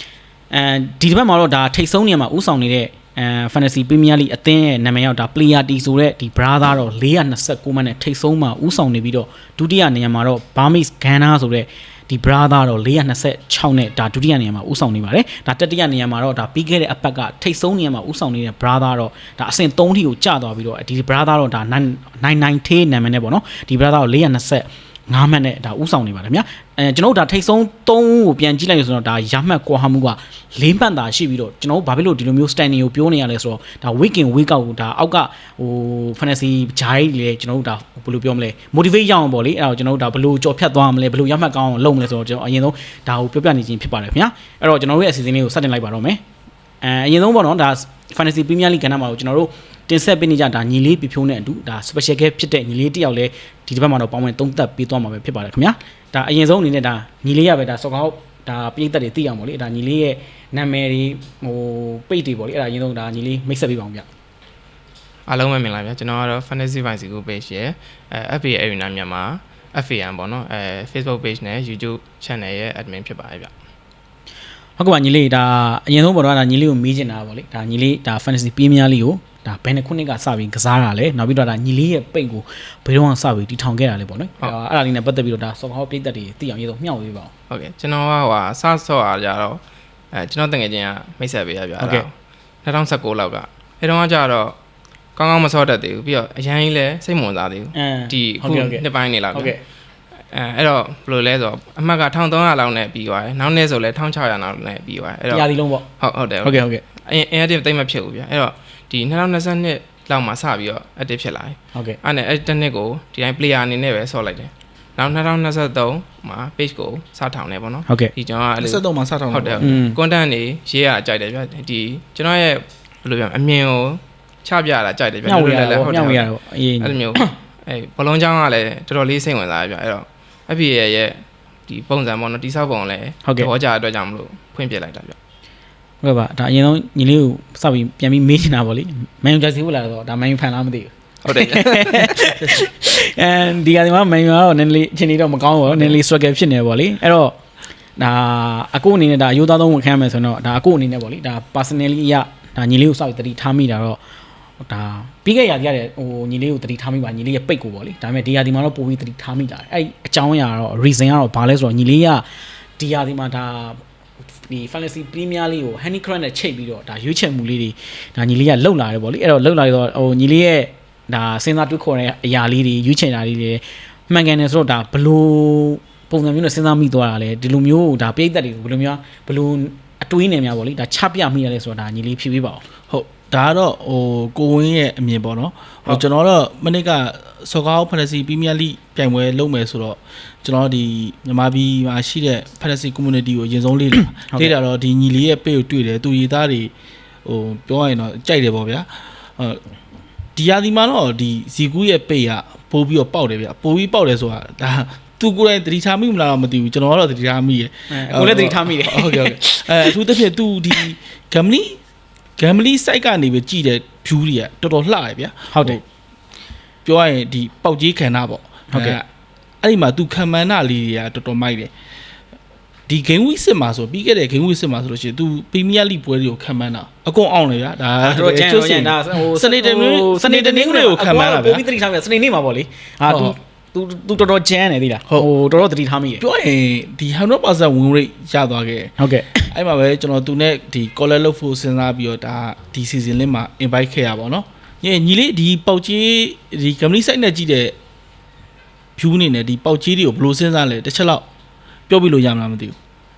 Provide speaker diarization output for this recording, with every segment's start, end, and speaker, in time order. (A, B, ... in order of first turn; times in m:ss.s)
0:00.5-0:46.2 A
0:46.8-1:04.0 A
1:05.3-1:13.5 B
1:14.8-1:27.3 A
1:27.5-1:32.1 B
1:31.8-1:32.0 A
1:32.6-1:34.6 B
1:35.2-1:39.5 B
1:37.7-1:39.6 A
1:40.3-2:06.3 B
1:45.3-1:45.8 A
1:46.4-1:46.8 A
1:58.6-1:59.8 C
1:59.6-2:00.0 A
2:05.2-2:07.3 A
2:06.8-2:15.2 B
2:16.0-2:27.4 A
2:21.2-2:22.2 B
2:22.2-2:22.6 C
2:28.0-2:34.0 A
2:34.6-2:42.2 A
2:42.8-2:43.8 A
2:44.4-3:02.6 A
3:02.9-3:16.7 C
3:14.1-3:14.5 A
3:17.2-3:19.6 C
3:20.4-3:31.8 C
3:27.9-3:30.0 A
3:32.4-3:35.8 C
3:35.5-3:35.8 A
3:36.8-3:39.0 C
3:38.7-3:39.0 A
3:39.6-3:41.7 C
3:42.9-3:51.6 C
3:48.0-3:56.2 A
3:53.0-3:53.3 C
3:56.2-3:58.9 C
3:59.0-3:59.5 A
3:59.5-4:07.7 C
4:09.0-4:11.2 C
4:11.9-4:12.8 C